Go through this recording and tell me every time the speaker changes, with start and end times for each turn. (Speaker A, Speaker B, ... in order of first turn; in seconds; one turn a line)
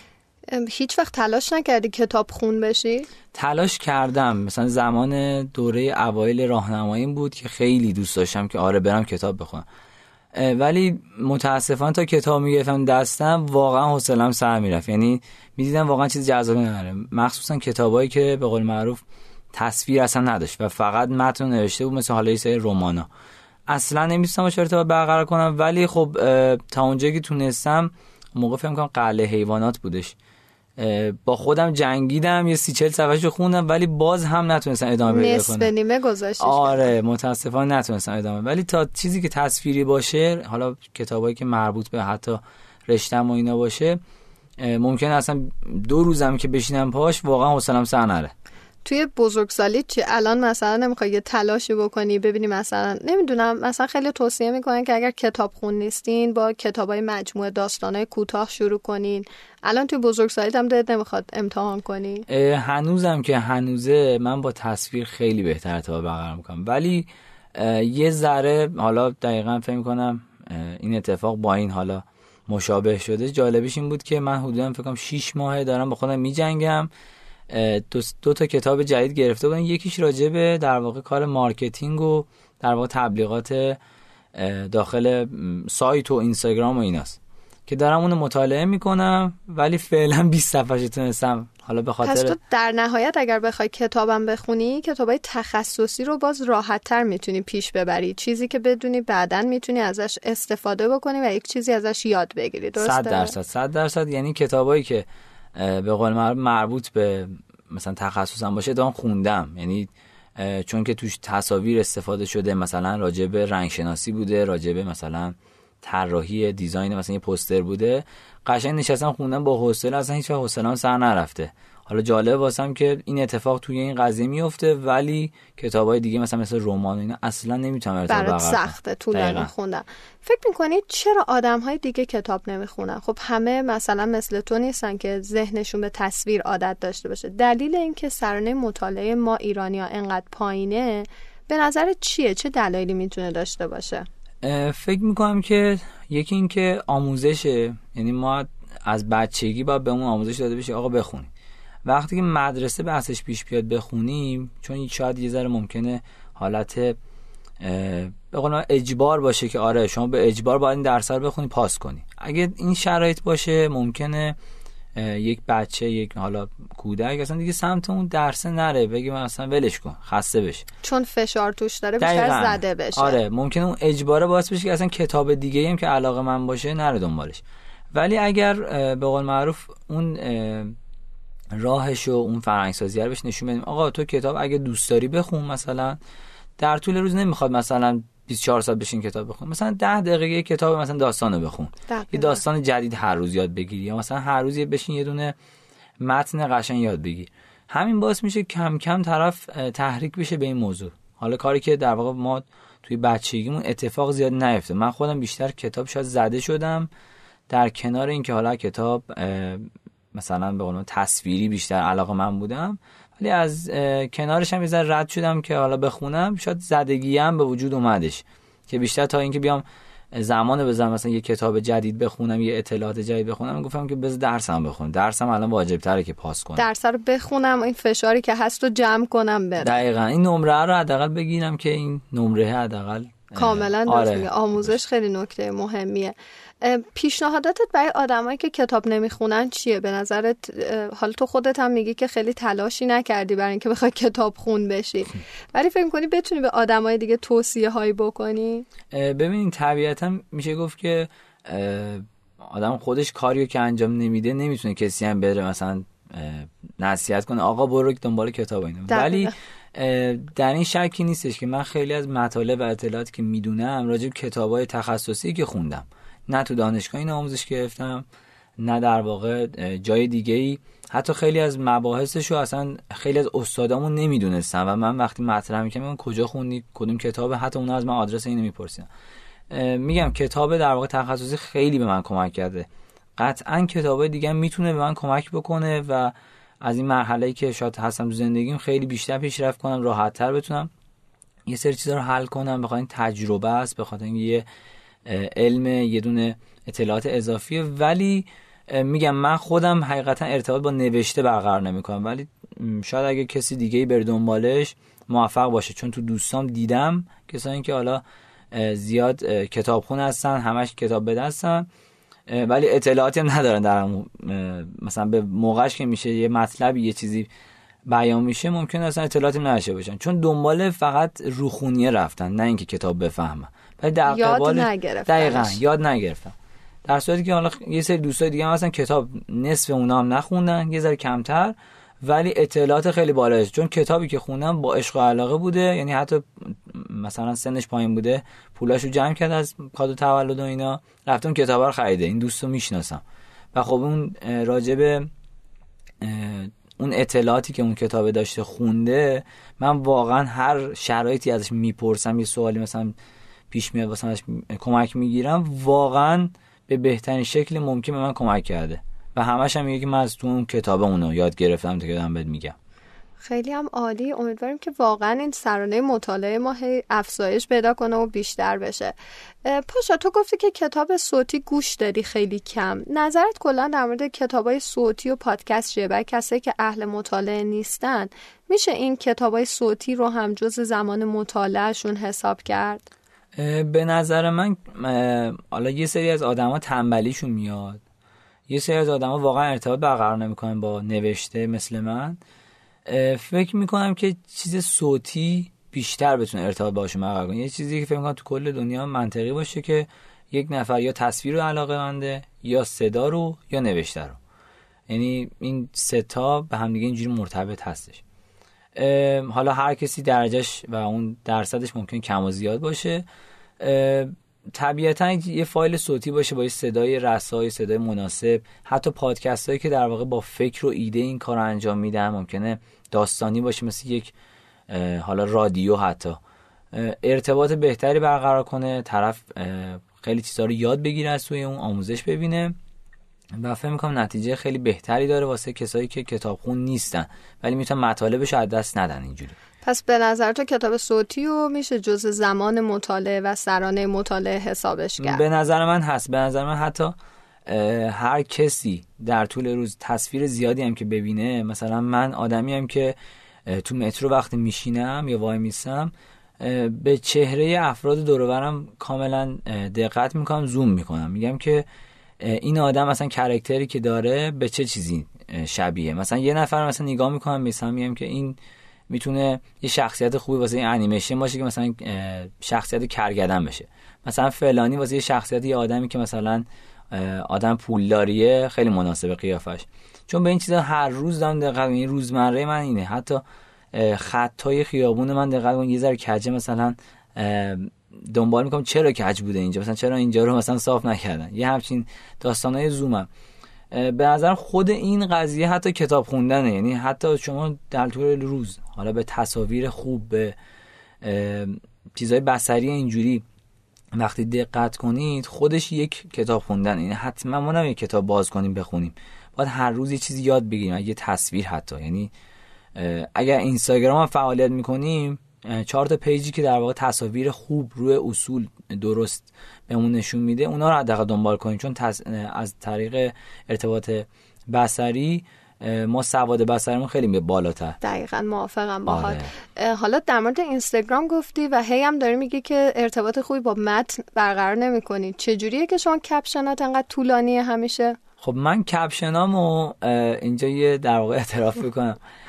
Speaker A: 0.5-3.1
Speaker B: 3.3-9.7
Speaker B: 10.3-19.0
Speaker B: 19.5-23.1
Speaker B: 23.7-30.1
Speaker B: 30.8-35.7
Speaker A: 35.0-36.9
Speaker B: 36.4-44.0
Speaker B: 44.6-48.3
Speaker A: 48.9-62.2
Speaker B: 62.3-76.9
Speaker B: 77.5-83.8
Speaker B: 84.3-92.4
Speaker A: 92.0-103.4
Speaker B: 102.8-129.5
Speaker A: 128.1-144.1
Speaker B: 144.4-151.3
Speaker B: 151.8-157.0
Speaker B: 157.6-164.4
Speaker B: 165.0-170.7
Speaker A: 170.8-173.2
Speaker B: 172.0-177.4
Speaker B: 177.9-180.7
Speaker B: 181.6-186.0
Speaker B: 186.6-195.3
Speaker A: 191.9-192.4
Speaker B: 196.0-206.9
Speaker B: 207.5-226.7
Speaker A: 226.6-229.8
Speaker B: 229.6-234.8
Speaker A: 233.3-248.7
Speaker B: 248.9-268.1
Speaker A: 258.9-259.3
Speaker B: 268.6-278.9
Speaker B: 279.5-290.7
Speaker B: 291.5-294.4
Speaker B: 295.1-311.7
Speaker B: 312.3-317.3
Speaker B: 317.9-343.0
Speaker A: 324.1-325.6
Speaker B: 343.5-345.1
Speaker B: 346.0-352.9
Speaker B: 353.5-362.6
Speaker A: 363.2-382.9
Speaker B: 383.4-387.8
Speaker B: 388.5-392.2
Speaker B: 392.9-404.2
Speaker B: 404.9-408.0
Speaker B: 408.8-413.1
Speaker B: 413.6-424.1
Speaker B: 424.7-426.2
Speaker B: 426.7-432.6
Speaker B: 433.4-439.4
Speaker A: 439.6-445.2
Speaker B: 445.0-446.9
Speaker B: 447.5-453.0
Speaker B: 453.5-461.6
Speaker B: 462.2-468.4
Speaker B: 468.9-493.1
Speaker B: 493.7-500.4
Speaker B: 501.0-503.2
Speaker B: 504.0-512.1
Speaker B: 512.8-527.8
Speaker A: 527.8-538.0
Speaker B: 528.9-529.3
Speaker B: 538.2-542.0